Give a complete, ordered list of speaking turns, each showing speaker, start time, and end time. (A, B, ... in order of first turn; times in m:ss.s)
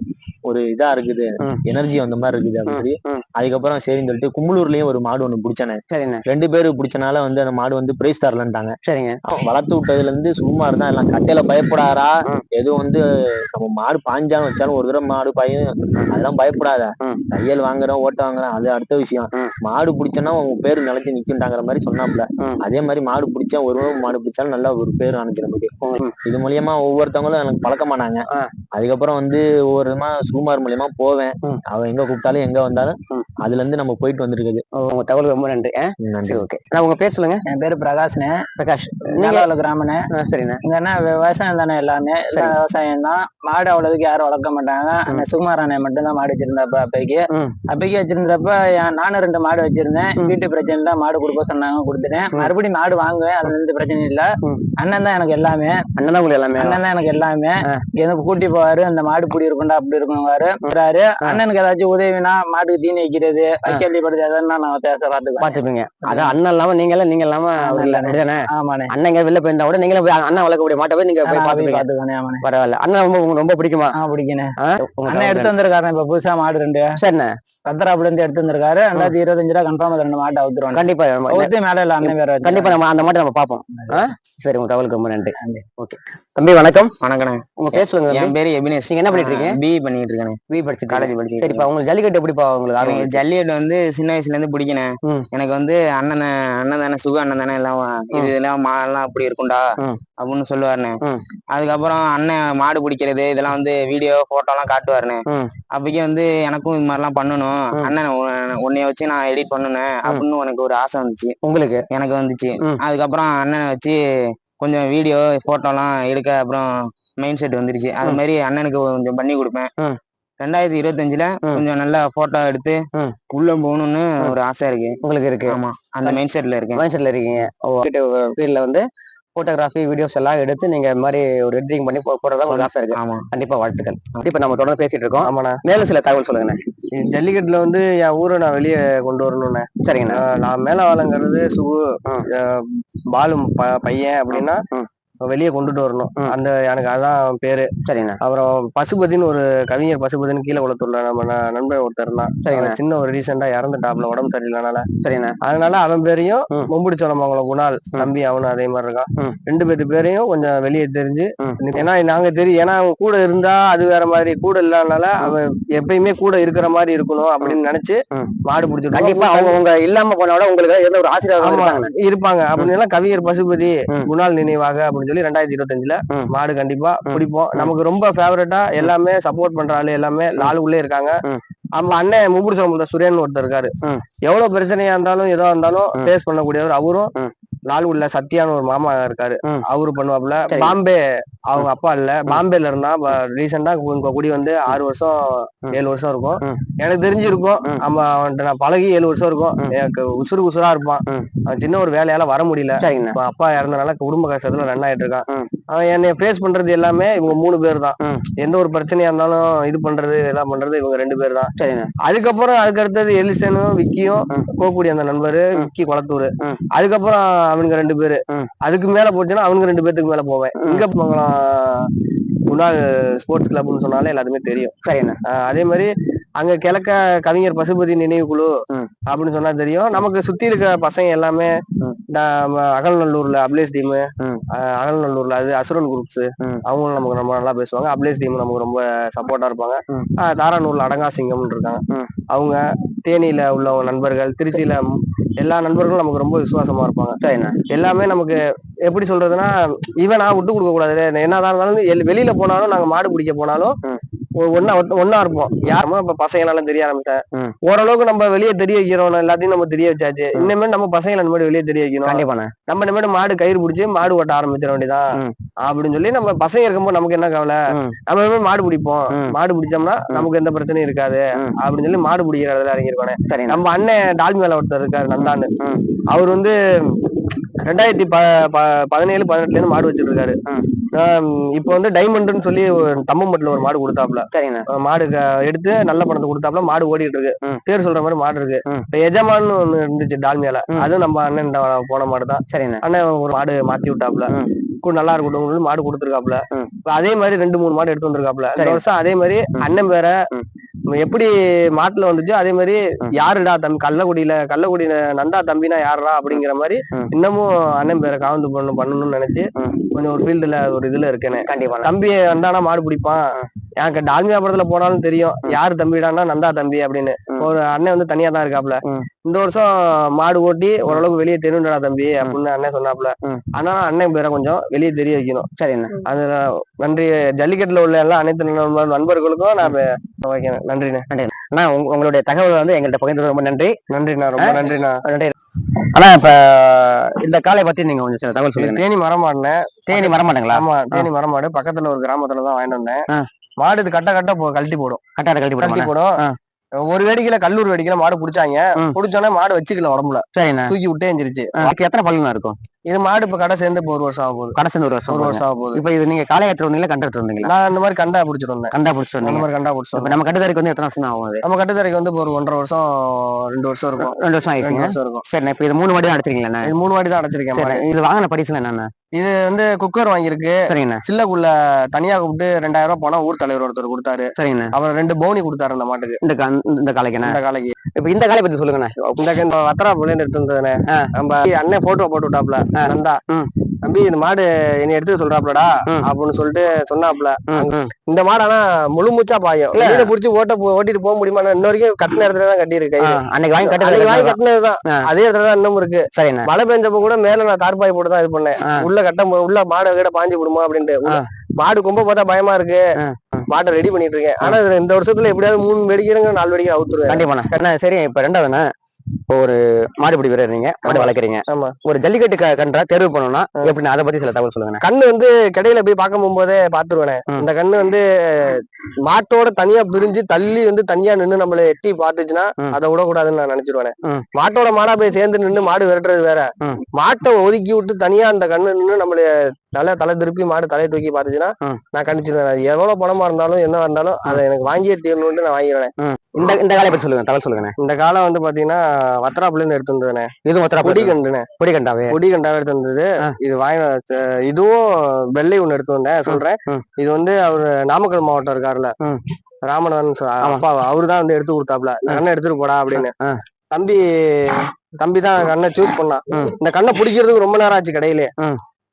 0:00.5-0:08.7 A
0:02.7-0:03.2 B
0:05.9-0:06.2 B
0:08.9-0:09.2 B
0:09.3-0:25.7 A
0:25.8-0:26.2 B
0:26.2-0:34.6 A
0:34.8-0:37.4 B
0:36.0-0:36.4 A
0:37.4-0:38.4 C
0:38.6-0:39.5 B
0:39.1-0:40.0 C
0:40.1-0:40.6 B
0:40.6-0:55.8 C
0:56.0-0:56.8 B
0:56.6-1:06.3 C
1:00.6-1:01.4 B
1:05.4-1:11.8 B
1:07.6-1:08.9 C
1:11.2-1:12.4 C
1:12.4-1:13.9 B
1:13.9-1:14.5 C
1:14.6-1:15.5 B
1:15.0-1:17.0 C
1:17.0-1:17.3 B
1:17.6-1:22.8 C
1:20.7-1:26.9 B
1:27.0-1:30.4 D
1:27.6-1:29.6 B
1:30.5-1:33.2 B
1:30.9-1:31.7 D
1:32.8-1:39.6 D
1:40.2-1:41.0 D
1:41.5-1:45.2 D
1:45.7-1:51.3 D
1:51.4-1:51.8 B
1:51.9-1:54.0 D
1:54.6-1:56.7 D
1:57.2-1:59.7 D
2:00.4-2:02.8 D
2:03.3-2:06.8 D
2:05.0-2:06.2 B
2:06.7-2:08.8 B
2:09.4-2:16.6 B
2:12.5-2:13.2 D
2:15.2-2:15.6 E
2:17.0-2:21.8 E
2:19.8-2:20.2 B
2:22.3-2:24.6 E
2:24.3-2:24.9 B
2:25.3-2:27.7 E
2:27.8-2:28.2 B
2:28.2-2:34.8 E
2:32.4-2:32.8 B
2:35.0-2:35.4 B
2:35.4-2:49.6 E
2:41.4-2:41.8 B
2:48.9-2:51.9 B
2:51.4-3:01.2 E
2:57.1-2:57.7 B
3:01.8-3:03.7 E
3:04.2-3:07.1 E
3:07.7-3:15.2 E
3:10.5-3:10.8 B
3:15.7-3:31.5 E
3:22.8-3:23.2 B
3:31.6-3:31.9 B
3:32.0-3:41.9 E
3:40.6-3:40.8 B
3:42.5-3:44.7 E
3:44.8-3:45.2 B
3:45.3-3:45.9 E
3:46.4-3:48.5 E
3:49.1-3:51.5 E
3:52.1-3:54.0 E
3:54.6-4:04.8 E
4:05.4-4:07.2 E
4:07.2-4:07.6 B
4:07.7-4:08.3 E
4:08.8-4:13.7 E
4:14.4-4:25.0 E
4:22.0-4:22.5 B
4:25.6-4:35.5 E
4:33.3-4:33.6 B
4:35.2-4:35.8 B
4:36.1-4:36.5 E
4:37.6-4:40.4 E
4:40.9-4:44.3 E
4:44.3-4:44.6 B
4:44.8-4:54.3 E
4:52.5-4:52.8 B
4:54.8-5:00.1 E
4:58.6-4:58.8 B
5:00.9-5:13.2 E
5:11.4-5:11.9 B
5:13.8-5:25.4 E
5:25.6-5:26.0 B
5:26.0-5:31.0 E
5:31.1-5:33.8 B
5:33.9-5:35.0 E
5:34.4-5:35.3 B
5:35.9-5:38.8 B
5:38.5-5:43.0 E
5:39.9-5:41.1 B
5:43.6-5:45.0 E
5:45.2-5:46.3 B
5:45.6-5:46.1 E
5:46.9-5:51.7 E
5:50.3-5:50.7 B
5:51.6-5:52.5 B
5:52.9-5:54.6 E
5:54.5-5:57.5 B
5:55.1-5:55.8 E
5:57.4-6:00.2 E
5:58.7-6:01.4 B
6:01.4-6:05.2 E
6:04.0-6:06.7 B
6:06.6-6:07.8 E
6:07.5-6:08.9 B
6:09.1-6:16.2 E
6:10.7-6:11.0 B
6:14.4-6:14.7 B
6:16.2-6:17.3 B
6:17.2-6:17.8 E
6:18.0-6:19.2 B
6:19.2-6:23.2 E
6:22.8-6:23.5 B
6:23.8-6:42.8 E
6:27.5-6:27.9 B
6:29.7-6:30.1 B
6:33.0-6:35.0 B
6:36.1-6:36.5 B
6:43.0-6:43.4 B
6:43.5-6:47.3 E
6:47.1-6:48.6 B
6:49.3-6:54.8 B
6:50.8-6:51.7 E
6:54.8-7:15.9 E
7:16.0-7:17.7 B
7:17.8-7:20.3 E
7:20.4-7:22.1 B
7:20.8-7:21.5 E
7:22.1-7:24.8 E
7:25.3-7:28.9 E
7:26.2-7:26.8 B
7:29.6-7:33.1 E
7:32.9-7:33.4 B
7:33.7-7:38.3 E